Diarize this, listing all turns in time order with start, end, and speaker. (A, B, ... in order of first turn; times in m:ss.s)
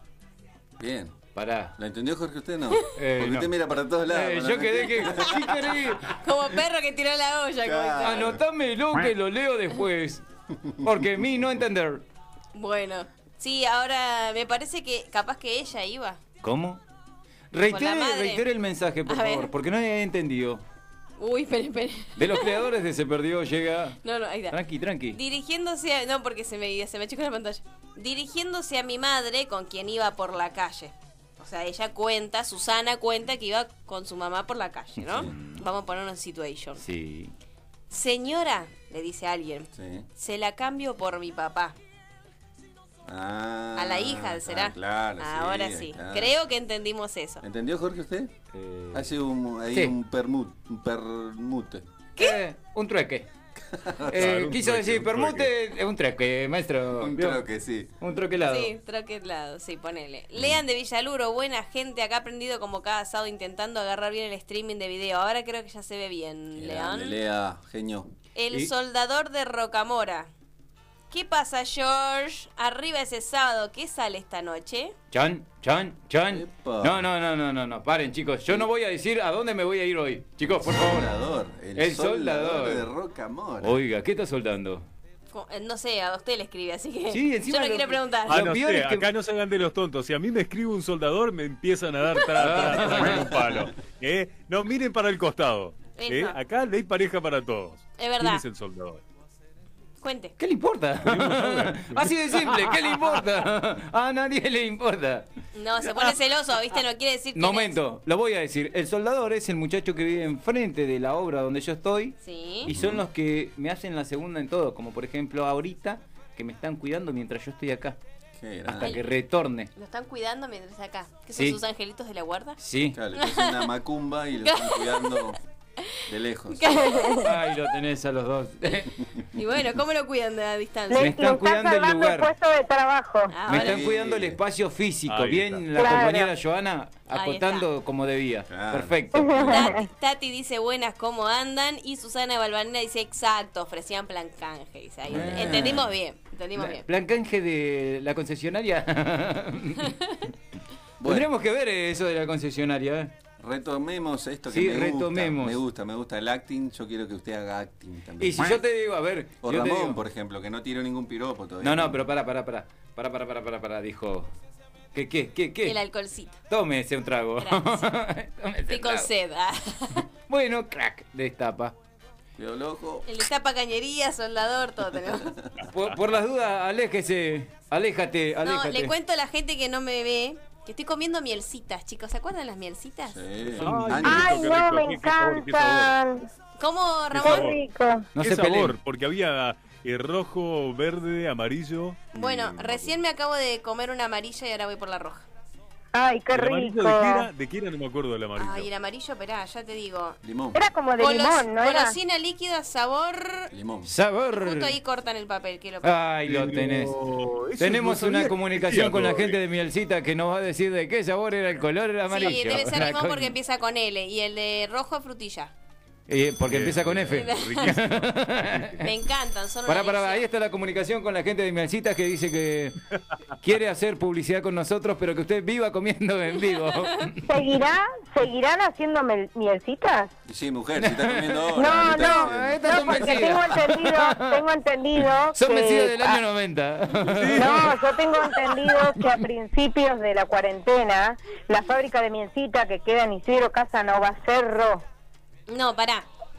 0:00.8-0:01.2 A
0:01.3-0:01.8 B
0:01.8-0:05.6 A
0:02.9-0:03.5 B
0:04.1-0:06.1 B
0:06.1-0:08.3 C
0:07.6-0:08.4 A
0:08.0-0:10.2 B
0:10.6-0:10.8 A
0:10.8-0:12.0 B
0:12.5-0:16.2 C
0:16.4-0:16.8 B
0:17.5-0:20.6 B
0:17.7-0:18.4 C
0:19.1-0:19.5 C
0:21.2-0:22.6 C
0:22.2-0:24.0 B
0:24.0-0:24.6 C
0:24.5-0:25.2 B
0:25.1-0:36.8 C
0:35.0-0:35.6 B
0:36.8-0:37.3 B
0:37.9-0:41.7 C
0:39.8-0:40.0 A
0:43.0-0:46.3 A
0:43.8-0:47.4 C
0:47.4-0:48.3 A
0:48.5-0:49.1 B
0:48.9-0:51.8 A
0:52.2-0:53.3 B
0:53.7-0:54.5 A
0:54.1-0:57.4 B
0:54.1-0:55.5 D
0:57.0-0:57.9 A
0:58.0-0:58.7 B
0:58.4-1:07.2 C
1:06.6-1:08.1 A
1:08.3-1:10.3 C
1:11.1-1:14.9 C
1:15.1-1:21.1 B
1:16.3-1:17.0 A
1:20.5-1:23.8 A
1:21.7-1:22.8 B
1:23.6-1:24.8 B
1:25.3-1:28.4 C
1:27.1-1:29.1 B
1:28.3-1:39.0 D
1:32.4-1:33.3 B
1:35.9-1:36.4 C
1:38.0-1:38.4 C
1:40.0-1:40.3 C
1:40.4-1:45.3 B
1:41.0-1:42.8 D
1:45.5-1:47.8 C
1:47.3-1:58.0 B
1:52.2-1:52.7 C
1:52.6-1:53.0 A
1:58.4-1:58.9 A
1:58.7-1:59.7 B
1:59.7-2:02.6 C
2:02.6-2:03.0 B
2:02.9-2:05.4 A
2:03.1-2:03.7 C
2:04.4-2:05.3 C
2:06.1-2:06.8 A
2:06.5-2:07.3 C
2:06.7-2:07.3 E
2:07.2-2:08.9 B
2:09.4-2:11.1 C
2:10.9-2:13.4 E
2:10.9-2:12.3 B
2:13.3-2:13.8 C
2:13.5-2:14.4 A
2:13.5-2:19.5 B
2:15.1-2:15.7 D
2:15.7-2:16.3 E
2:17.1-2:17.7 C
2:18.5-2:19.6 A
2:19.1-2:19.9 E
2:19.4-2:26.8 C
2:25.1-2:25.9 A
2:25.1-2:25.8 B
2:26.6-2:29.9 B
2:31.0-2:31.3 A
2:31.0-2:33.1 B
2:33.4-2:38.6 A
2:34.5-2:35.6 B
2:38.2-2:40.0 B
2:39.4-2:42.0 A
2:41.6-2:44.3 B
2:44.9-2:45.8 B
2:45.6-2:46.4 C
2:46.5-2:49.1 B
2:47.4-2:47.8 C
2:48.7-2:50.0 C
2:50.3-2:51.7 B
2:52.4-2:53.0 A
2:53.0-2:55.4 C
2:55.7-2:58.9 B
2:58.4-3:03.2 C
3:03.1-3:04.4 A
3:03.6-3:04.3 B
3:03.6-3:06.0 D
3:04.0-3:06.2 E
3:06.6-3:07.5 C
3:07.1-3:07.6 D
3:07.2-3:08.1 E
3:08.2-3:08.8 B
3:08.2-3:12.2 D
3:12.1-3:15.2 C
3:15.9-3:17.3 E
3:16.3-3:18.7 D
3:18.4-3:20.2 C
3:20.2-3:20.6 A
3:20.5-3:22.0 E
3:21.0-3:23.5 C
3:23.5-3:23.9 A
3:23.8-3:24.7 B
3:24.4-3:26.0 C
3:25.8-3:27.0 B
3:26.2-3:29.4 D
3:27.6-3:33.3 B
3:32.1-3:35.5 C
3:36.1-3:38.8 B
3:36.4-3:38.8 D
3:37.1-3:37.7 C
3:38.8-3:40.2 C
3:39.7-3:42.8 B
3:43.4-3:47.2 B
3:47.2-3:50.1 E
3:50.3-3:53.1 A
3:50.8-3:54.4 B
3:51.5-3:56.2 E
3:55.0-3:57.8 B
3:57.0-3:57.7 D
3:57.3-4:04.8 E
4:05.5-4:06.1 C